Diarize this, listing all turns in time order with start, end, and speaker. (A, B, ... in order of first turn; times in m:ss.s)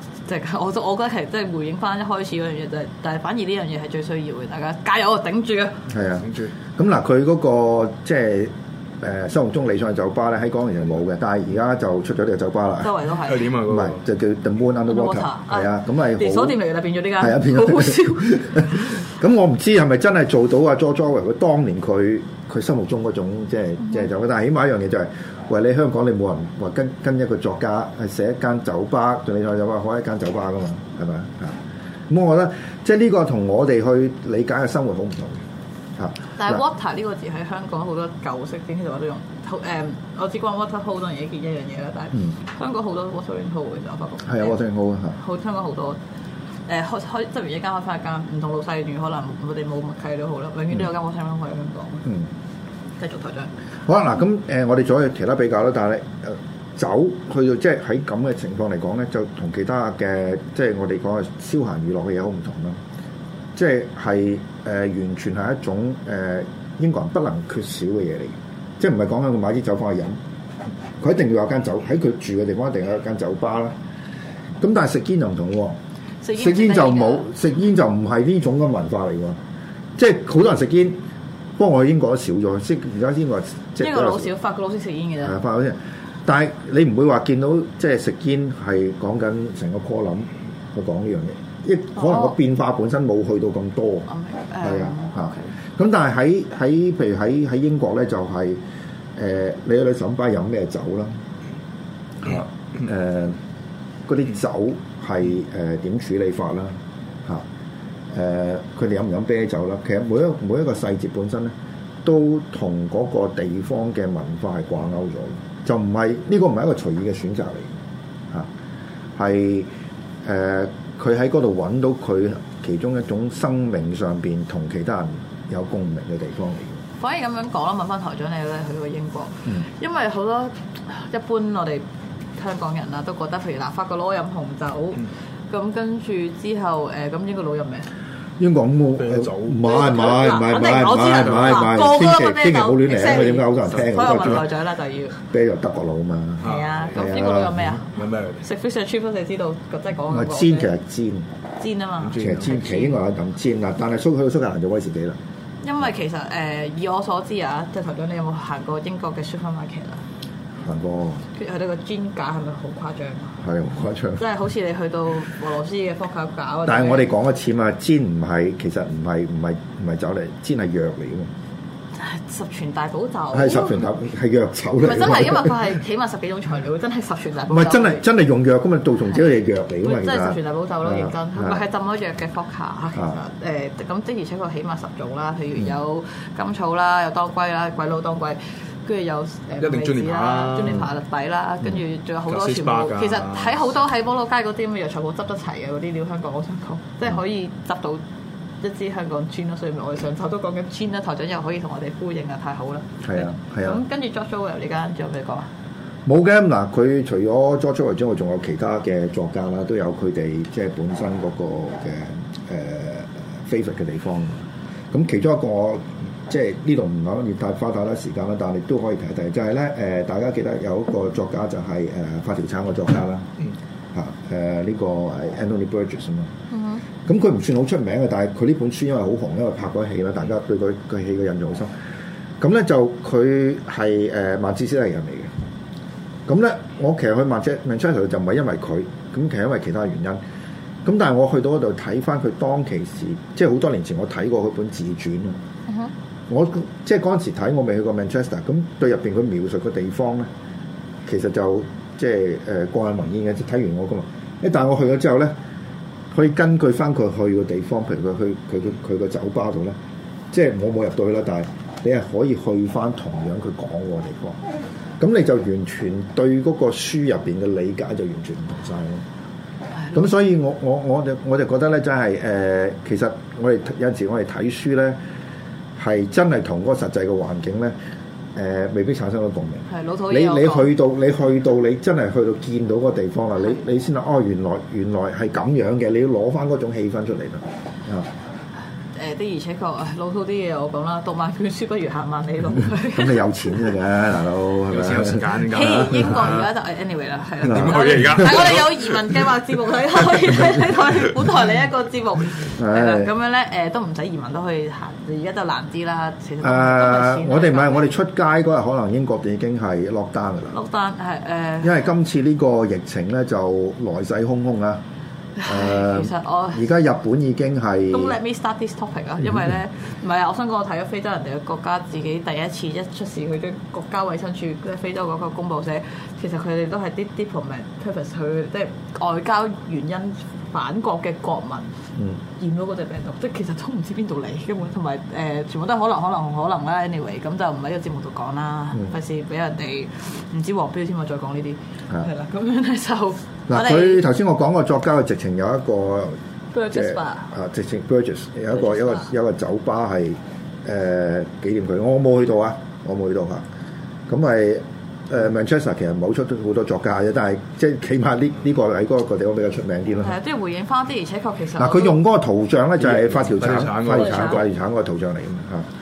0:00.2-0:05.8 A
0:05.9-0:12.9 B
0:06.2-0:06.5 C
0:12.8-0:13.5 A
0:13.2-0:14.0 C
0:13.6-0:16.6 B
0:14.9-0:18.6 A
0:17.2-0:35.4 B
0:36.0-0:36.6 B
0:36.4-0:44.6 A
0:44.2-0:45.2 B
0:45.1-0:46.0 A
0:46.7-0:52.1 A
0:53.0-0:53.5 A
0:53.8-1:02.8 B
1:03.5-1:10.2 B
1:11.0-1:13.8 B
1:14.6-1:15.8 B
1:16.2-1:17.3 A
1:16.4-1:19.4 B
1:20.0-1:21.0 B
1:21.6-1:24.3 B
1:23.8-1:25.4 A
1:25.2-1:34.1 B
1:32.0-1:32.3 A
1:34.1-1:35.5 A
1:34.6-1:38.6 B
1:39.2-1:41.2 B
1:42.2-1:43.4 B
1:44.0-1:47.4 B
1:48.1-1:57.7 B
1:59.2-1:59.7 B
2:00.2-2:06.8 B
2:07.0-2:11.8 A
2:12.4-2:17.9 A
2:18.4-2:24.5 B
2:19.0-2:19.6 C
2:19.6-2:25.2 A
2:21.2-2:21.7 C
2:25.3-2:27.6 B
2:26.4-2:27.0 C
2:26.4-2:30.7 A
2:27.9-2:28.4 C
2:30.1-2:31.3 B
2:31.6-2:33.0 A
2:32.0-2:32.8 C
2:32.2-2:35.2 B
2:35.6-2:40.0 A
2:40.6-2:41.2 B
2:41.3-2:43.4 A
2:43.4-2:44.2 B
2:44.2-2:47.1 A
2:46.6-2:51.3 B
2:52.0-2:53.8 A
2:53.3-2:55.6 B
2:54.8-2:58.0 A
2:57.5-3:01.6 B
2:59.8-3:18.0 A
3:09.6-3:10.8 C
3:12.3-3:13.6 C
3:18.6-3:25.5 A
3:23.0-3:23.8 B
3:26.0-3:34.4 B
3:34.9-3:43.4 B
3:43.9-3:46.3 B
3:46.5-3:46.8 A
3:47.0-3:51.7 B
3:52.4-3:55.3 B
3:56.3-4:00.2 B
4:00.8-4:05.4 B
4:06.3-4:10.3 B
4:11.0-4:15.3 B
4:16.1-4:19.8 B
4:20.3-4:24.4 B
4:25.0-4:29.0 B
4:29.9-4:35.0 B
4:35.8-4:37.7 B
4:38.3-4:48.1 B
4:39.7-4:40.7 A
4:48.9-4:53.5 A
4:52.9-4:55.4 B
4:54.7-4:56.5 C
4:55.5-5:07.9 A
4:57.4-4:59.0 C
5:02.6-5:03.1 B
5:06.4-5:10.6 B
5:10.5-5:11.8 A
5:11.6-5:14.8 B
5:15.4-5:16.6 A
5:15.4-5:18.2 B
5:17.9-5:31.7 A
5:32.3-5:44.0 A
5:43.5-5:46.2 B
5:46.5-5:47.3 A
5:46.7-5:53.4 B
5:48.5-5:49.1 A
5:54.1-6:00.2 B
6:00.0-6:02.0 A
6:01.6-6:05.7 B
6:02.8-6:04.4 C
6:04.0-6:04.4 A